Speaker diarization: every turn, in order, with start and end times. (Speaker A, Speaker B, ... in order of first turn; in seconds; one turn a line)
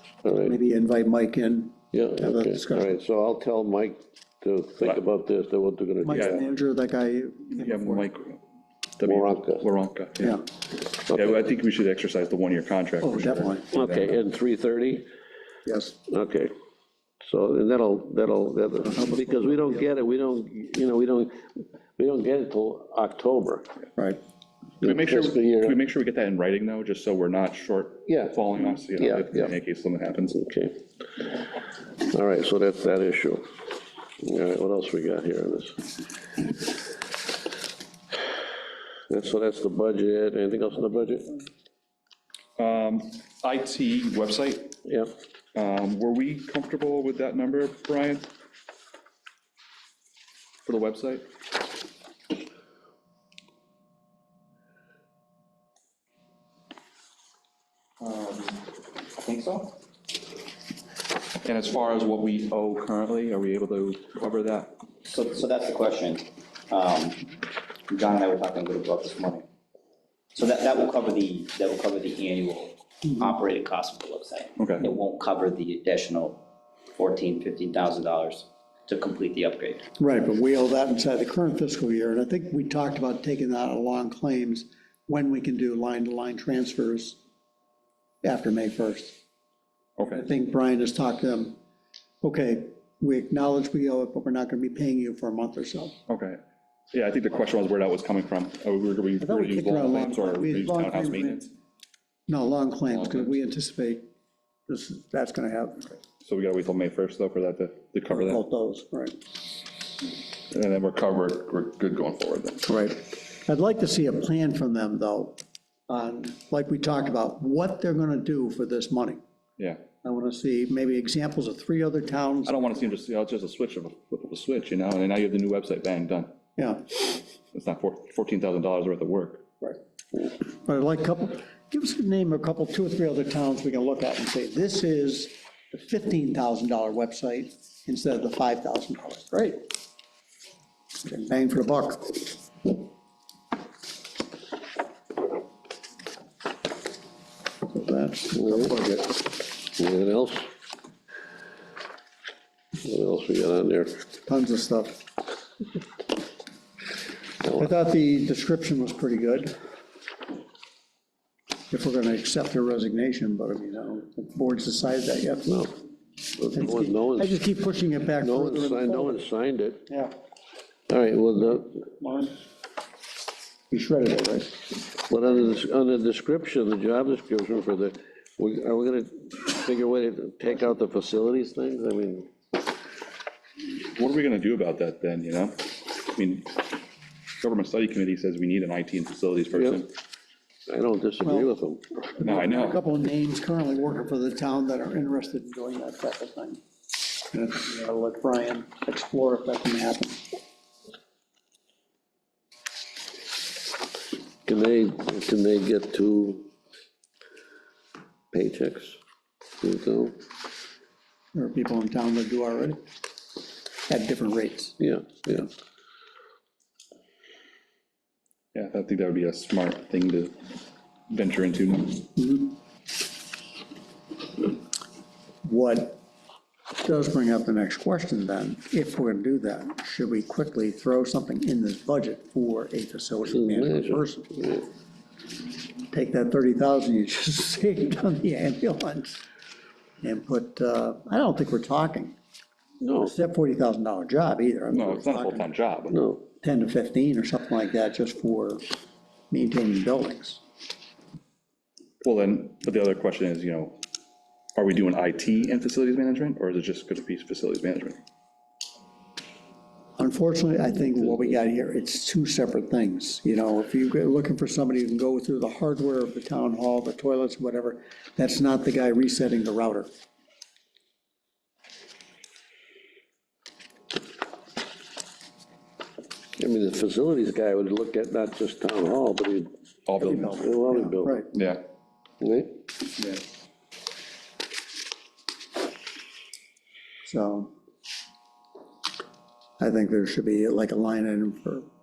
Speaker A: 0.2-0.5
Speaker B: 0.4-3.0
Speaker A: 1.9-6.3
Speaker B: 6.0-8.1
Speaker C: 6.1-6.4
Speaker C: 7.5-8.4
Speaker C: 9.0-10.4
Speaker A: 9.0-9.7
Speaker C: 10.9-14.2
Speaker B: 13.0-13.7
Speaker A: 13.7-15.1
Speaker B: 15.7-16.0
Speaker A: 16.1-16.5
Speaker A: 17.2-23.7
Speaker B: 18.8-19.9
Speaker B: 24.0-24.2
Speaker A: 24.8-25.8
Speaker C: 24.8-30.5
Speaker A: 28.1-28.4
Speaker A: 29.0-29.5
Speaker A: 30.4-30.8
Speaker A: 32.0-33.5
Speaker A: 34.2-35.9
Speaker A: 39.1-41.5
Speaker C: 42.6-44.8
Speaker A: 44.9-45.1
Speaker C: 45.5-48.3
Speaker C: 50.6-51.3
Speaker D: 58.0-59.8
Speaker C: 61.5-64.7
Speaker D: 65.0-67.3
Speaker D: 67.9-69.5
Speaker D: 70.3-76.4
Speaker C: 74.6-74.9
Speaker D: 77.0-79.9
Speaker B: 80.0-87.2
Speaker B: 88.2-89.2
Speaker C: 90.0-90.3
Speaker B: 90.1-91.6
Speaker B: 92.2-96.0
Speaker C: 96.1-96.4
Speaker C: 96.9-101.5
Speaker B: 99.2-101.5
Speaker B: 102.3-104.1
Speaker C: 102.9-103.4
Speaker B: 104.7-105.9
Speaker C: 106.2-108.4
Speaker B: 108.1-109.2
Speaker C: 110.5-112.7
Speaker B: 112.7-119.2
Speaker C: 119.6-119.8
Speaker B: 120.0-122.7
Speaker C: 122.5-126.3
Speaker B: 126.6-126.8
Speaker C: 127.5-129.4
Speaker B: 130.5-139.7
Speaker B: 141.0-142.3
Speaker B: 147.7-149.2
Speaker A: 149.7-150.5
Speaker A: 152.8-154.0
Speaker B: 154.3-155.0
Speaker B: 157.4-159.6
Speaker B: 161.7-165.6
Speaker A: 165.5-165.8
Speaker A: 166.4-167.4
Speaker B: 166.5-169.3
Speaker A: 168.2-169.8
Speaker B: 169.9-170.2
Speaker A: 170.9-171.8
Speaker B: 171.9-172.4
Speaker B: 173.7-174.6
Speaker A: 175.1-182.3
Speaker C: 183.7-186.8
Speaker C: 187.4-189.9
Speaker A: 190.7-192.0
Speaker B: 191.2-191.6
Speaker B: 192.1-196.6
Speaker C: 192.2-192.8
Speaker B: 197.3-200.4
Speaker A: 204.4-206.5
Speaker A: 208.3-209.0
Speaker A: 209.6-210.2
Speaker B: 211.3-212.8
Speaker B: 213.9-214.8
Speaker A: 214.8-215.5
Speaker C: 218.5-220.4
Speaker C: 221.1-222.1
Speaker B: 222.2-222.6
Speaker B: 225.4-226.0
Speaker B: 226.8-234.7
Speaker A: 233.3-234.6
Speaker B: 235.9-239.2
Speaker B: 240.0-242.2
Speaker A: 242.8-243.1
Speaker B: 243.0-245.5
Speaker C: 244.7-246.0
Speaker A: 245.9-246.2
Speaker B: 246.3-248.7
Speaker B: 249.3-250.4
Speaker C: 252.0-253.8
Speaker C: 254.6-258.0
Speaker B: 260.0-269.9
Speaker A: 276.4-279.5
Speaker C: 279.9-280.5
Speaker B: 280.0-281.3
Speaker A: 280.4-281.2
Speaker C: 281.3-281.6
Speaker A: 282.2-282.6
Speaker B: 287.1-287.5
Speaker B: 289.6-291.7